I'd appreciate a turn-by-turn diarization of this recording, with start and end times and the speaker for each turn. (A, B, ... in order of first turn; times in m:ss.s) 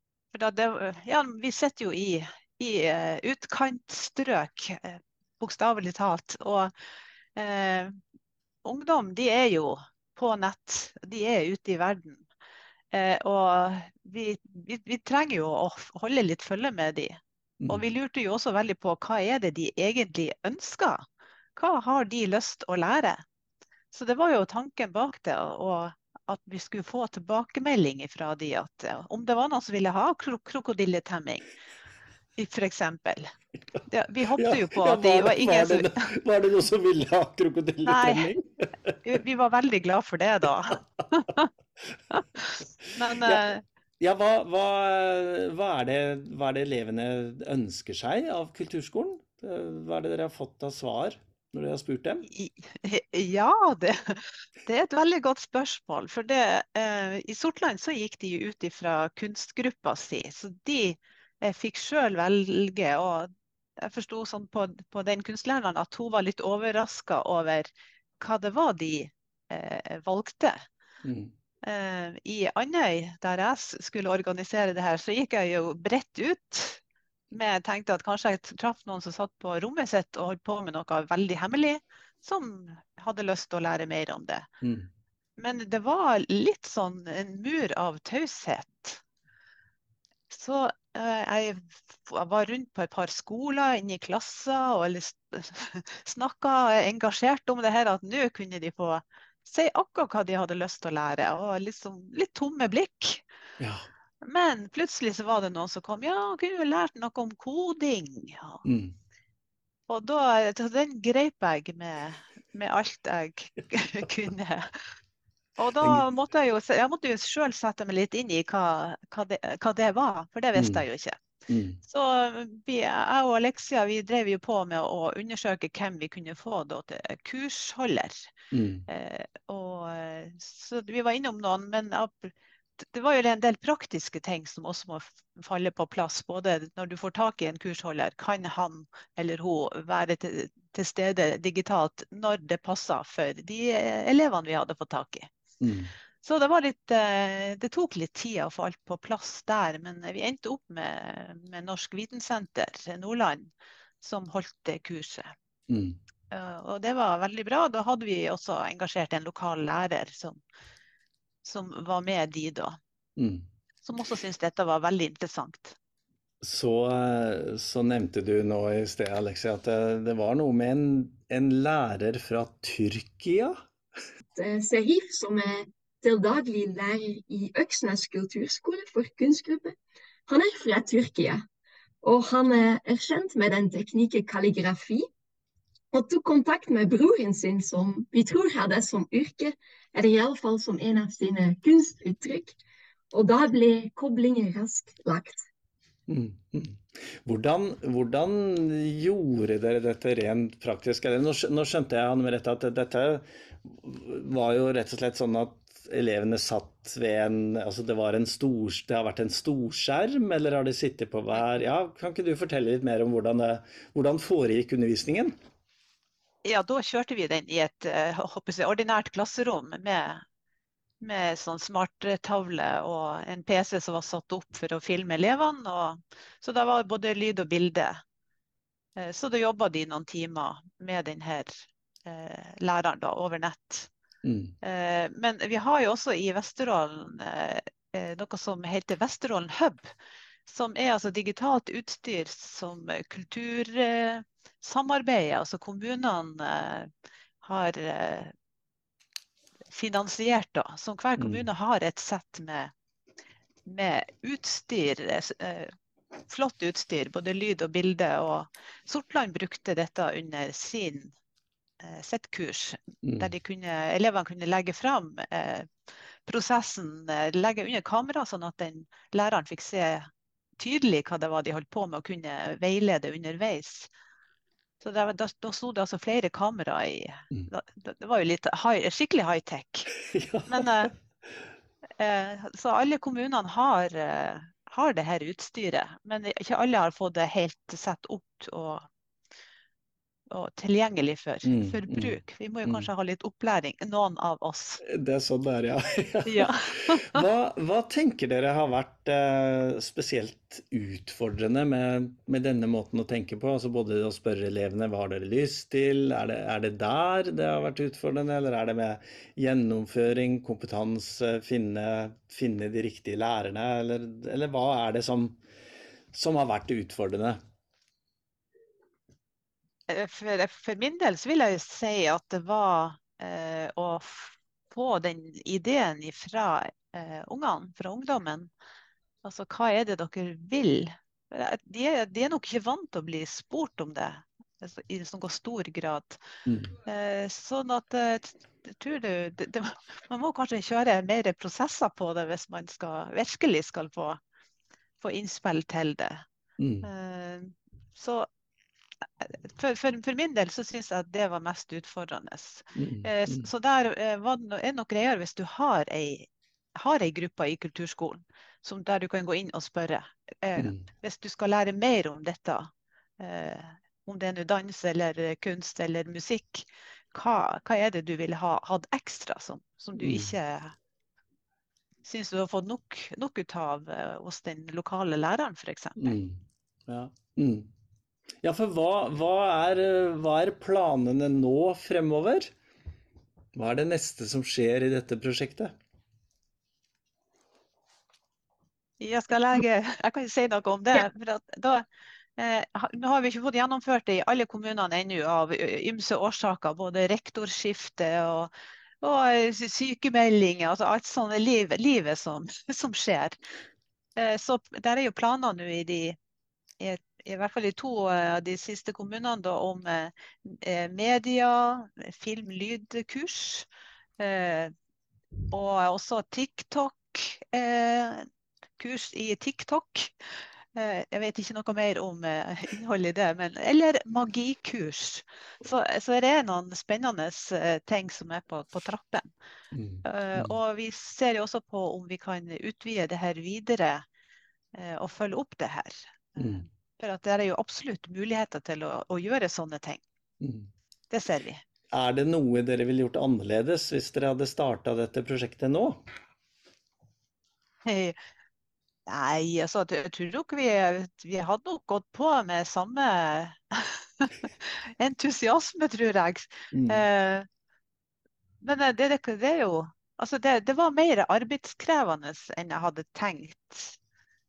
0:00.3-0:06.7 A
0:07.4-0:08.0 A
0:08.6-0:12.2 A
0:12.9-0:21.0 A
0:21.6-0:23.2 A
0:23.9-0:31.4 A
0:32.4-0:33.3 A
0:33.9-0:35.9 A
0:34.4-0:38.9 B
0:37.9-0:38.4 A
0:39.0-0:41.5 A
0:42.1-0:43.6 A
0:44.0-0:52.3 B
0:52.3-1:10.6 A
1:11.0-1:11.3 B
1:11.6-1:16.8 A
1:17.3-1:24.5 A
1:24.6-1:24.9 B
1:25.4-1:29.0 A
1:30.3-1:43.2 A
1:43.6-1:43.9 B
1:44.2-1:48.6 A
1:48.6-1:48.9 B
1:49.9-1:54.8 A
1:55.6-2:01.2 A
2:00.6-2:00.8 B
2:01.5-2:01.8 B
2:01.8-2:08.3 A
2:08.5-2:08.8 B
2:08.9-2:25.3 A
2:25.6-2:25.9 B
2:26.2-2:35.3 A
2:35.7-2:36.0 B
2:36.3-2:40.4 A
2:41.4-2:42.8 A
2:43.2-2:43.4 B
2:43.8-2:45.8 A
2:46.4-2:53.6 B
2:54.3-2:59.7 C
3:00.3-3:01.4 C
3:02.0-3:05.1 C
3:05.9-3:12.6 C
3:13.1-3:15.4 C
3:16.1-3:35.3 B
3:36.4-3:40.2 A
3:41.0-3:48.0 A
3:49.0-3:53.9 A
3:54.2-3:54.6 B
3:54.6-3:59.9 A
4:00.5-4:06.9 A
4:07.4-4:08.3 A
4:09.7-4:12.7 A
4:11.2-4:11.4 B
4:13.7-4:15.7 A
4:16.3-4:21.1 A
4:21.8-4:25.7 A
4:23.0-4:23.3 B
4:26.3-4:30.1 A
4:30.6-4:33.9 A
4:34.8-4:39.9 A
4:40.1-4:40.9 B
4:40.5-4:40.9 A
4:42.0-4:48.8 A
4:50.3-4:54.8 A
4:51.4-4:52.9 B
4:54.8-5:15.4 B
4:56.2-4:57.2 A
5:16.1-5:17.4 B
5:19.9-5:28.5 A
5:29.2-5:36.2 A
5:36.4-5:36.7 B
5:36.8-5:44.2 A
5:45.0-5:46.2 A
5:46.6-5:46.9 B
5:46.8-5:48.3 A
5:49.2-6:10.7 A
5:52.8-5:53.5 B
6:00.6-6:00.8 B
6:10.0-6:10.3 B
6:12.0-6:16.2 A
6:16.0-6:17.7 B
6:18.4-6:22.5 B
6:23.6-6:25.7 B
6:29.0-6:31.8 A
6:32.4-6:43.4 A
6:44.2-6:46.2 A
6:46.8-6:53.7 A
6:54.2-6:54.7 A
6:55.5-6:58.3 A
6:58.8-7:00.2 A
7:00.7-7:09.3 A
7:09.7-7:10.6 B
7:10.0-7:14.0 A
7:14.7-7:20.0 A
7:16.4-7:16.6 B
7:20.4-7:20.7 B
7:21.1-7:21.6 A
7:21.9-7:26.0 B
7:27.8-7:28.2 A
7:29.1-7:37.5 A
7:36.7-7:37.0 B
7:38.6-7:44.0 A